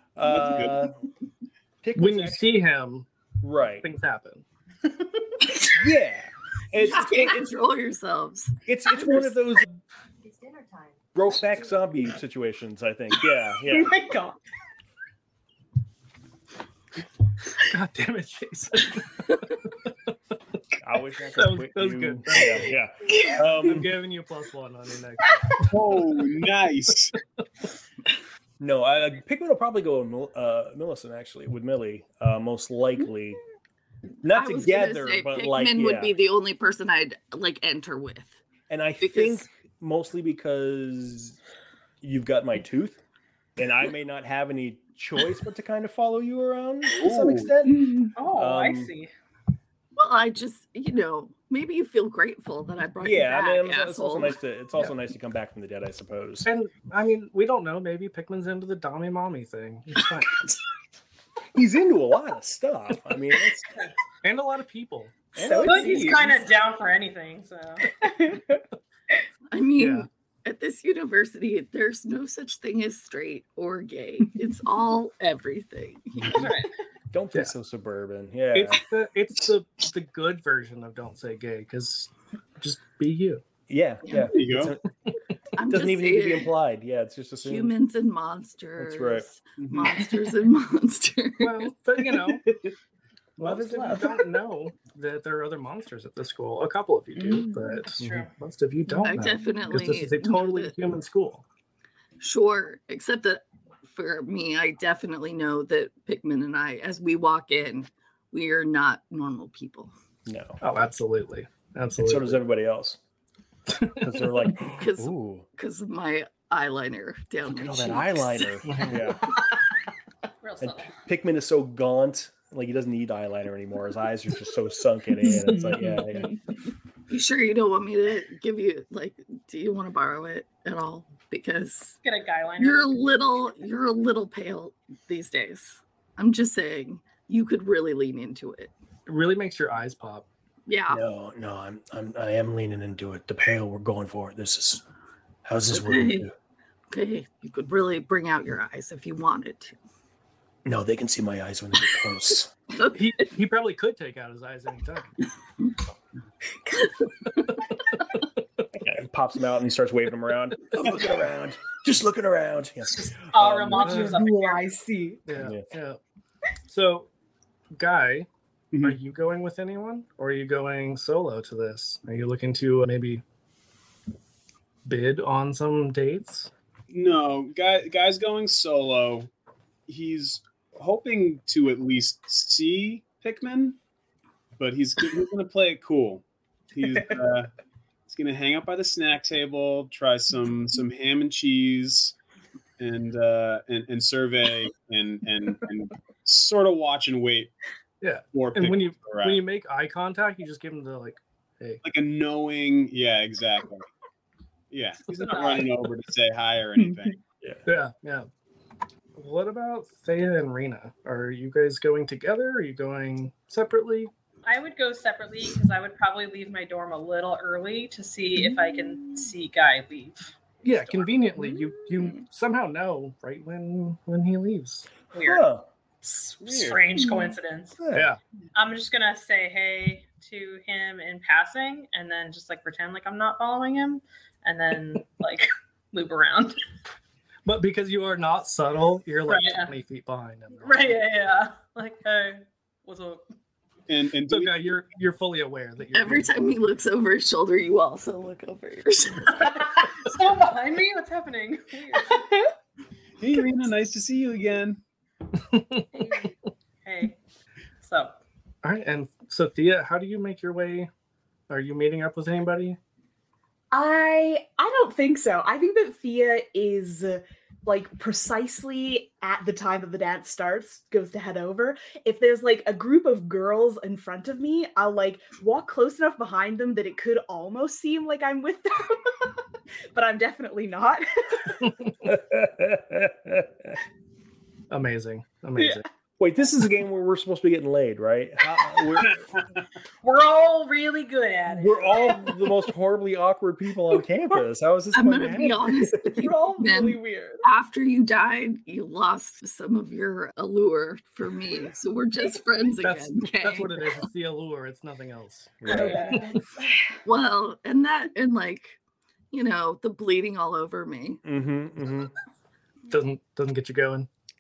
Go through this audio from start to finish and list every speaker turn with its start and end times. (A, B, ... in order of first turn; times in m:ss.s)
0:00.2-0:01.0 A
0:00.3-0:00.9 B
0:01.8-0:02.4 A
0:02.0-0:03.1 C
0:03.4-0:03.9 A
0:03.6-0:04.4 C
0:05.7-0:07.6 A
0:06.8-0:09.1 D
0:08.7-0:09.7 A
0:10.2-0:11.0 E
0:11.2-0:14.0 A
0:13.7-0:14.4 E
0:17.6-0:19.9 C
0:20.8-0:24.0 A
0:21.4-0:22.8 C
0:23.0-0:23.6 E
0:23.4-0:25.7 C
0:25.6-0:27.2 B
0:28.6-0:33.4 A
0:34.2-0:38.4 D
0:34.2-0:36.2 A
0:38.7-0:41.4 A
0:39.0-0:39.5 D
0:42.0-0:43.0 A
0:43.6-0:48.9 A
0:46.9-0:47.5 B
0:47.6-0:48.1 E
0:48.2-0:49.1 F
0:50.0-0:54.4 D
0:53.0-0:56.5 A
0:56.4-1:00.5 C
1:01.5-1:03.7 A
1:04.2-1:06.4 C
1:05.4-1:06.2 A
1:05.4-1:06.2 E
1:05.6-1:07.9 F
1:08.0-1:08.6 E
1:09.5-1:16.5 D
1:09.8-1:10.1 C
1:16.3-1:16.7 F
1:17.1-1:18.8 A
1:18.5-1:23.4 C
1:23.7-1:24.8 A
1:24.0-1:24.4 D
1:24.3-1:24.8 B
1:25.6-1:26.5 D
1:25.7-1:27.7 A
1:27.4-1:31.7 D
1:28.8-1:29.3 A
1:29.6-1:30.0 B
1:31.4-1:32.5 C
1:33.4-1:41.4 C
1:33.4-1:34.3 E
1:37.2-1:37.8 E
1:38.0-1:38.3 F
1:39.0-1:40.8 D
1:42.2-1:49.9 D
1:50.3-1:50.6 A
1:50.6-1:52.4 C
1:52.0-1:53.0 A
1:53.7-1:54.5 C
1:54.0-1:55.5 A
1:54.7-1:58.8 D
1:57.5-1:59.3 A
1:58.6-1:59.1 C
2:00.4-2:00.9 F
2:00.6-2:06.4 A
2:05.2-2:06.4 E
2:07.1-2:12.0 D
2:12.0-2:13.0 F
2:12.6-2:18.7 D
2:19.1-2:20.3 C
2:20.7-2:21.0 D
2:20.9-2:24.8 A
2:25.4-2:26.3 A
2:25.7-2:26.3 F
2:26.9-2:29.8 D
2:30.6-2:32.5 A
2:32.9-2:35.1 C
2:38.7-2:44.1 A
2:42.9-2:44.8 F
2:43.8-2:44.2 C
2:43.8-2:45.2 E
2:45.3-2:46.0 C
2:45.4-2:45.7 A
2:46.7-2:47.1 C
2:47.7-2:48.3 C
2:48.8-2:53.2 C
2:54.9-2:56.5 C
2:56.9-2:59.3 B
2:59.9-3:03.8 B
3:04.6-3:07.5 B
3:08.1-3:12.2 B
3:12.8-3:17.5 B
3:18.0-3:21.8 C
3:18.3-3:19.4 B
3:21.8-3:23.9 B
3:24.7-3:27.2 B
3:25.2-3:25.7 F
3:27.7-3:28.3 C
3:29.2-3:34.1 C
3:34.4-3:41.1 F
3:40.6-3:44.9 C
3:45.1-3:45.4 F
3:45.2-3:45.7 A
3:46.0-3:47.8 F
3:46.4-3:46.9 B
3:47.0-3:47.3 E
3:47.8-3:48.1 A
3:47.9-3:48.2 C
3:48.6-3:56.6 F
3:57.4-4:01.0 C
3:59.3-3:59.7 F
4:00.6-4:03.2 F
4:03.9-4:04.8 B
4:04.3-4:06.6 C
4:05.9-4:09.5 D
4:09.3-4:12.4 F
4:13.2-4:14.8 B
4:15.4-4:16.1 C
4:16.8-4:17.2 F
4:17.8-4:18.2 F
4:18.6-4:20.9 C
4:21.5-4:22.8 C
4:23.7-4:39.4 E
4:39.9-4:41.6 E
4:41.6-4:41.9 C
4:42.0-4:43.8 A
4:44.7-4:45.9 C
4:46.2-4:49.3 A
4:50.0-4:52.3 F
4:51.5-4:56.3 A
4:54.9-5:03.8 D
4:56.0-4:57.4 E
5:02.8-5:06.4 C
5:05.6-5:06.1 A
5:05.7-5:06.9 E
5:07.0-5:08.8 D
5:09.3-5:11.2 D
5:11.2-5:12.1 A
5:12.9-5:14.1 C